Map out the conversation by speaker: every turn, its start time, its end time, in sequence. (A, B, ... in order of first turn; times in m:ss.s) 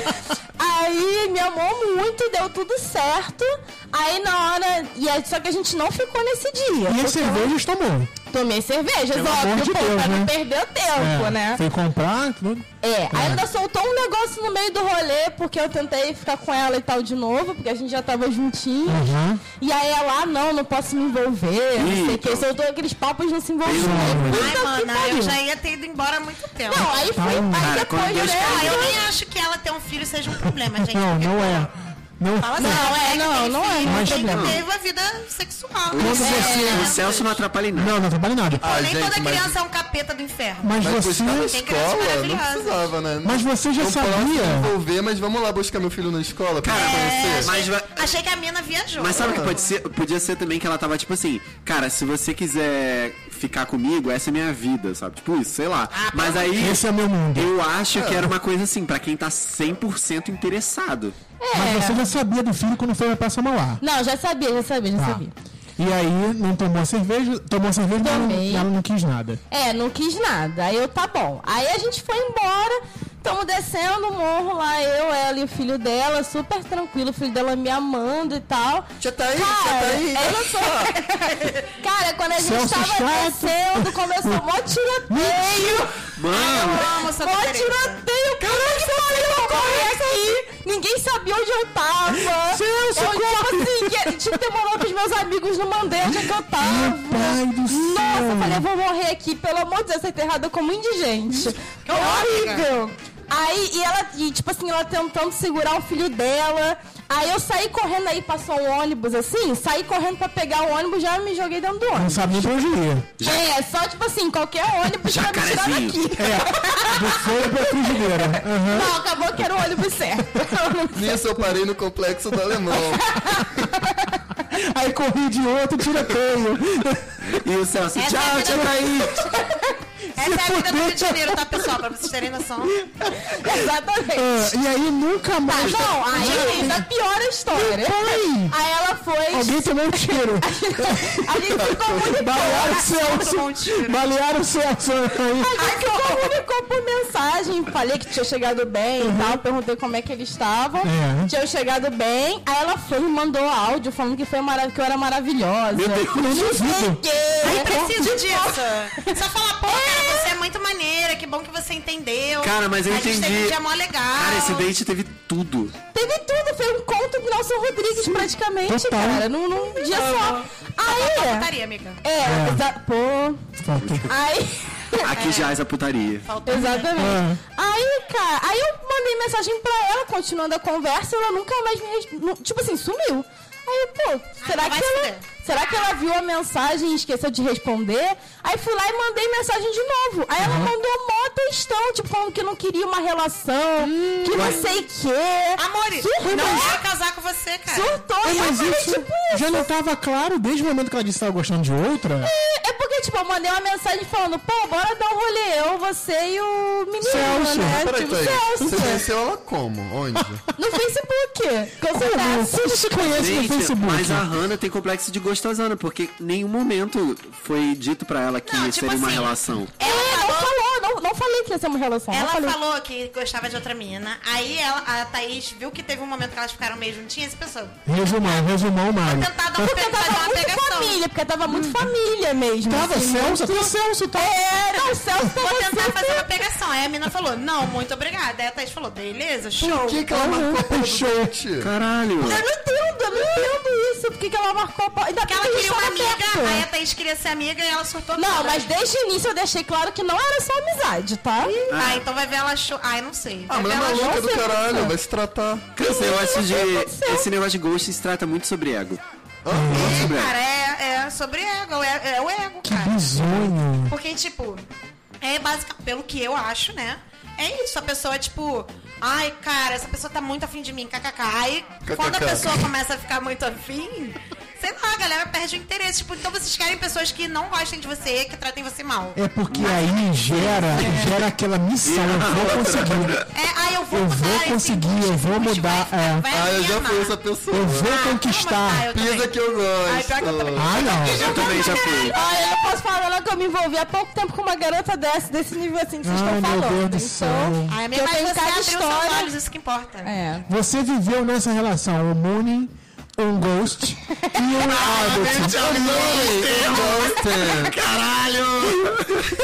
0:00.6-0:07.5 A
0:06.9-0:08.1 B
0:08.3-0:11.6 A
0:09.1-0:10.3 B
0:11.0-0:13.4 B
0:12.8-0:19.0 A
0:18.9-0:19.4 B
0:19.6-0:25.4 A
0:21.8-0:22.5 C
0:23.6-0:24.5 C
0:23.7-0:24.4 B
0:24.3-0:27.1 D
0:26.6-0:29.0 A
0:27.2-0:27.8 B
0:27.6-0:29.1 C
0:28.2-0:31.7 D
0:30.8-0:32.9 B
0:32.4-0:37.4 D
0:32.6-0:34.5 A
0:33.8-0:34.6 B
0:34.3-0:34.6 C
0:35.9-0:37.9 C
0:36.0-0:37.0 B
0:36.2-0:36.7 A
0:37.7-0:38.6 B
0:38.5-0:40.8 D
0:38.6-0:39.6 E
0:40.6-0:41.6 B
0:40.8-0:47.5 E
0:41.5-0:42.9 D
0:43.2-0:44.7 B
0:46.6-0:48.0 C
0:46.7-0:49.6 D
0:49.0-0:56.8 C
0:49.2-0:49.5 E
0:55.9-0:56.7 D
0:56.6-0:57.5 B
0:57.3-1:01.2 C
0:57.9-0:58.3 E
1:01.4-1:02.0 A
1:01.5-1:03.8 B
1:03.8-1:05.3 A
1:05.0-1:05.2 B
1:05.8-1:09.4 B
1:08.0-1:08.7 A
1:09.5-1:25.9 A
1:19.0-1:20.9 E
1:22.3-1:24.4 B
1:25.1-1:25.9 B
1:26.1-1:26.9 C
1:26.3-1:30.3 D
1:26.7-1:52.2 A
1:32.3-1:34.2 B
1:36.0-1:38.6 B
1:41.8-1:42.7 D
1:51.9-1:53.1 B
1:53.2-2:01.1 A
1:55.0-1:56.0 C
1:56.2-1:58.9 B
2:00.9-2:03.2 E
2:02.9-2:04.2 A
2:04.5-2:07.3 B
2:07.3-2:09.1 C
2:08.0-2:09.0 D
2:10.2-2:12.8 D
2:10.2-2:11.8 B
2:12.8-2:16.9 B
2:13.2-2:14.5 A
2:15.5-2:22.8 A
2:16.2-2:16.7 D
2:17.5-2:18.5 B
2:19.3-2:21.5 B
2:21.6-2:22.2 E
2:22.1-2:25.5 B
2:22.4-2:24.1 D
2:25.4-2:40.3 A
2:25.6-2:26.4 D
2:29.0-2:29.4 B
2:30.8-2:31.3 B
2:35.7-2:36.5 C
2:36.1-2:37.0 B
2:37.4-2:44.7 D
2:42.4-2:43.6 C
2:44.1-2:45.8 C
2:45.9-2:51.5 A
2:48.0-2:49.3 B
2:49.8-2:52.0 D
2:52.0-2:53.4 A
2:52.2-2:52.6 B
2:53.6-2:54.1 B
2:53.8-2:54.1 C
2:54.1-2:55.1 A
2:55.0-2:56.3 C
2:55.1-2:55.6 D
2:56.2-2:57.1 D
2:56.4-3:16.8 A
2:57.0-2:57.4 B
3:04.4-3:05.2 D
3:10.4-3:10.7 B
3:13.8-3:14.6 B
3:15.6-3:18.0 D
3:17.7-3:19.7 A
3:18.2-3:22.3 B
3:22.2-3:29.0 A
3:27.0-3:27.8 B
3:27.5-3:30.4 E
3:28.7-3:28.9 B
3:30.6-3:33.2 A
3:31.9-3:34.3 B
3:33.1-3:39.7 C
3:38.4-3:40.6 D
3:39.8-3:42.6 A
3:42.1-3:48.5 D
3:47.9-3:49.3 B
3:49.0-3:51.0 D
3:49.6-3:56.3 A
3:51.5-3:51.8 B
3:52.6-3:54.3 B
3:55.4-4:00.1 D
3:59.6-4:01.7 E
4:00.1-4:01.3 B
4:01.6-4:02.4 C
4:02.2-4:06.6 A
4:05.2-4:08.7 D
4:08.2-4:11.5 A
4:11.7-4:14.1 D
4:11.7-4:12.0 C
4:13.5-4:15.7 E
4:13.8-4:14.9 A
4:15.8-4:19.0 C
4:15.8-4:17.3 A
4:19.4-4:20.1 E
4:19.5-4:20.0 B
4:19.7-4:20.3 C
4:19.7-4:23.1 D
4:22.6-4:23.9 B
4:23.8-4:24.6 D
4:25.2-4:39.2 D
4:31.8-4:32.7 E
4:39.2-4:43.2 B
4:39.5-4:41.2 C
4:41.8-4:43.2 C
4:43.3-4:47.2 D
4:43.9-4:46.2 B
4:46.3-4:47.9 E
4:47.5-4:48.9 B
4:47.8-4:49.3 D
4:48.9-4:51.0 E
4:49.8-4:52.5 D
4:50.6-4:51.4 B
4:51.0-4:52.2 C
4:52.0-4:59.3 A
4:56.0-4:57.8 B
4:57.7-5:00.1 D
5:00.0-5:00.5 A
5:00.5-5:06.1 B
5:04.6-5:09.2 C
5:05.0-5:07.8 E